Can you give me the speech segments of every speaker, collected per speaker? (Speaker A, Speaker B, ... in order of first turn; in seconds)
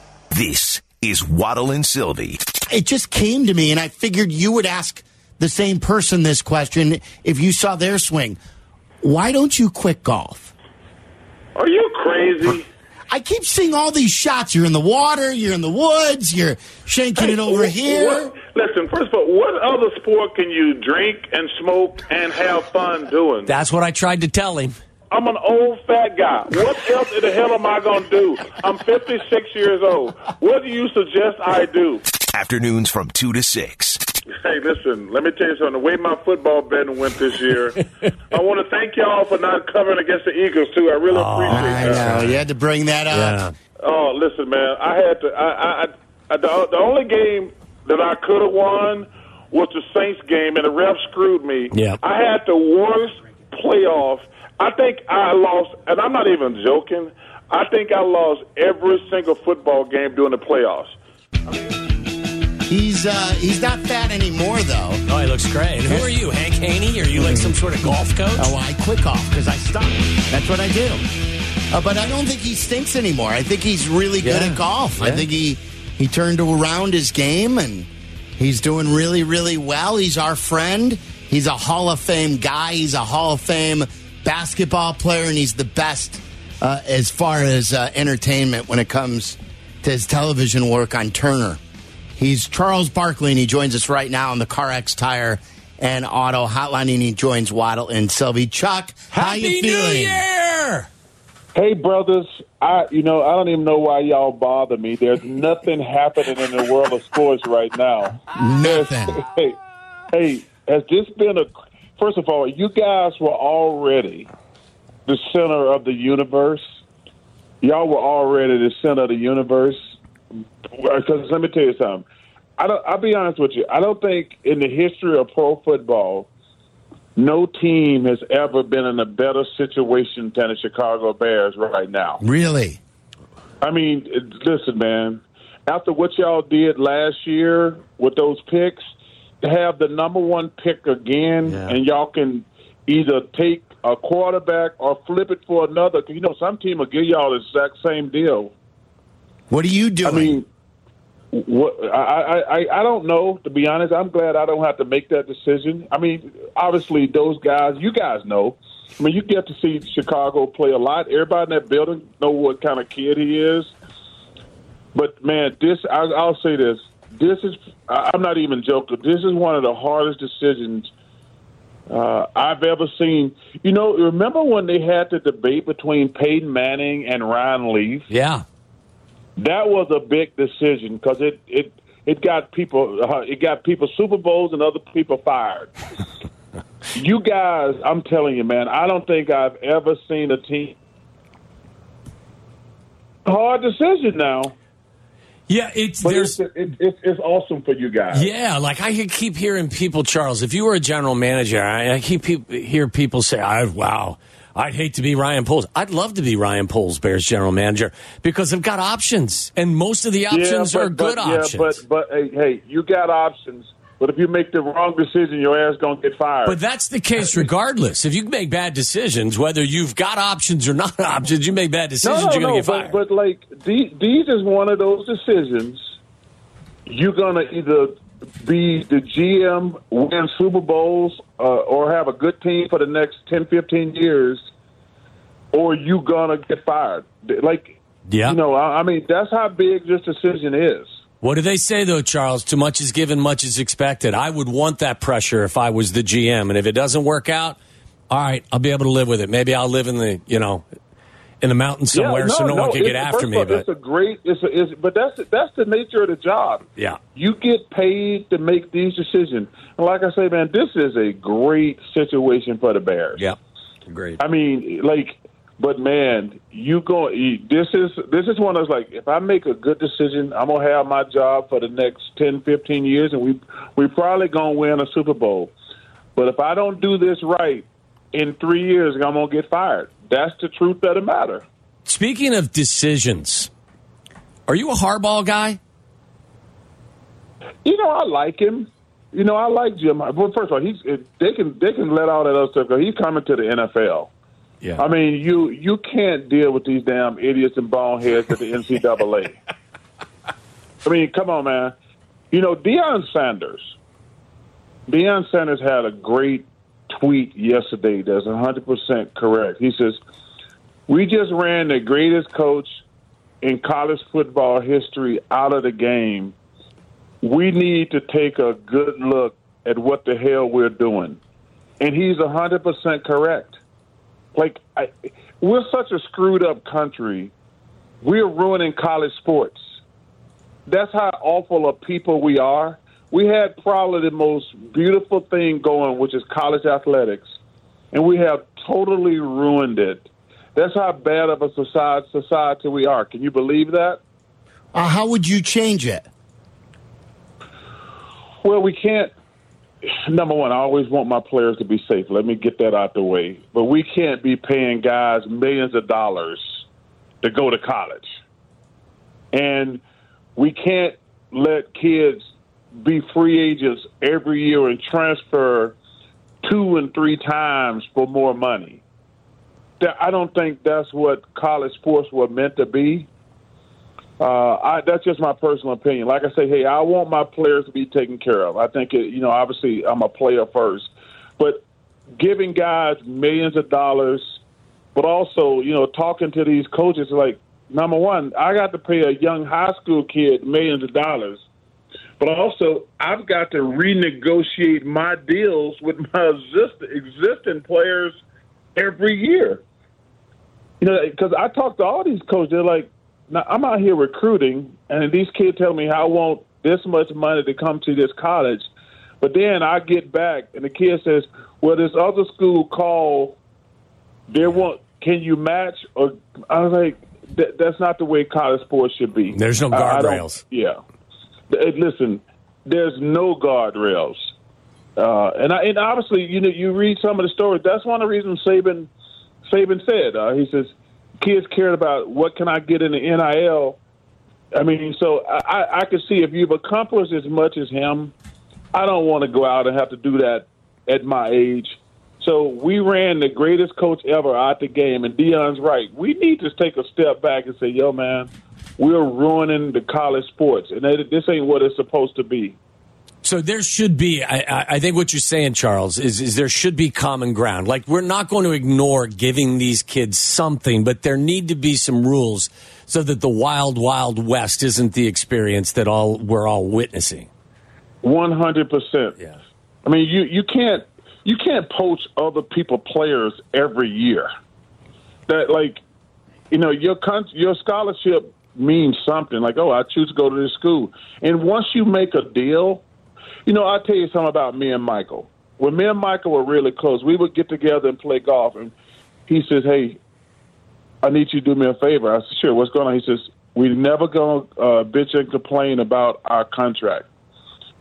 Speaker A: 0.3-2.4, 32.3-34.0
Speaker B: 2.7-8.4, 9.0-10.5, 13.1-18.4, 41.5-43.4, 62.7-65.0, 67.1-67.5, 68.4-71.0, 71.7-91.6, 92.2-100.2, 108.3-109.2, 132.2-132.8, 149.5-150.4, 344.7-346.1
Speaker C: 11.6-12.7, 17.2-23.5, 25.1-32.0, 34.3-42.1, 43.8-61.0, 101.5-109.5, 110.1-114.3, 115.0-116.6, 117.6-119.8, 120.8-122.0, 122.6-126.3, 127.2-132.2, 133.6-148.5, 150.0-150.4, 151.3-163.7, 164.9-170.9, 171.9-178.1, 179.4-185.7, 186.9-190.8, 193.2-194.5, 196.0-198.3, 210.3-216.6, 217.2-217.5, 222.0-225.8, 226.8-234.4, 235.5-240.9, 251.9-256.6, 257.1-263.2, 264.2-275.5, 276.1-281.4, 287.6-294.1, 294.8-299.4, 300.8-301.7, 302.3-303.7, 304.9-310.0, 310.9-312.8, 313.4-316.3, 317.2-321.2, 321.8-323.6, 324.3-327.3, 328.0-329.6, 330.7-337.3, 337.9-344.0, 348.4-349.1, 349.8-356.6, 357.2-358.1, 359.3-359.8, 360.4-362.2, 362.8-365.8, 366.4-368.8, 369.8-373.1, 374.2-381.6, 382.2-384.4, 384.9-391.4, 392.2-398.2, 398.8-399.6, 400.8-408.7, 409.2-413.4, 414.3-420.8, 421.5-424.3, 425.0-428.9, 429.4-433.8, 434.5-438.1, 438.7-452.6, 468.0-469.1, 469.8-474.3, 475.3-475.8, 476.5-482.8, 483.4-488.7, 489.3-490.0, 491.0-497.1
Speaker D: 23.5-24.8, 41.1-42.4, 43.1-43.5, 51.7-52.0, 65.1-68.5, 74.2-75.2, 99.1-100.9, 178.1-178.4, 195.5-196.4, 198.1-211.8, 216.4-222.9, 238.1-238.4, 241.2-247.6, 248.1-250.6, 251.4-253.6, 263.9-264.2, 281.9-283.5, 284.5-285.6, 419.3-420.4, 453.2-467.3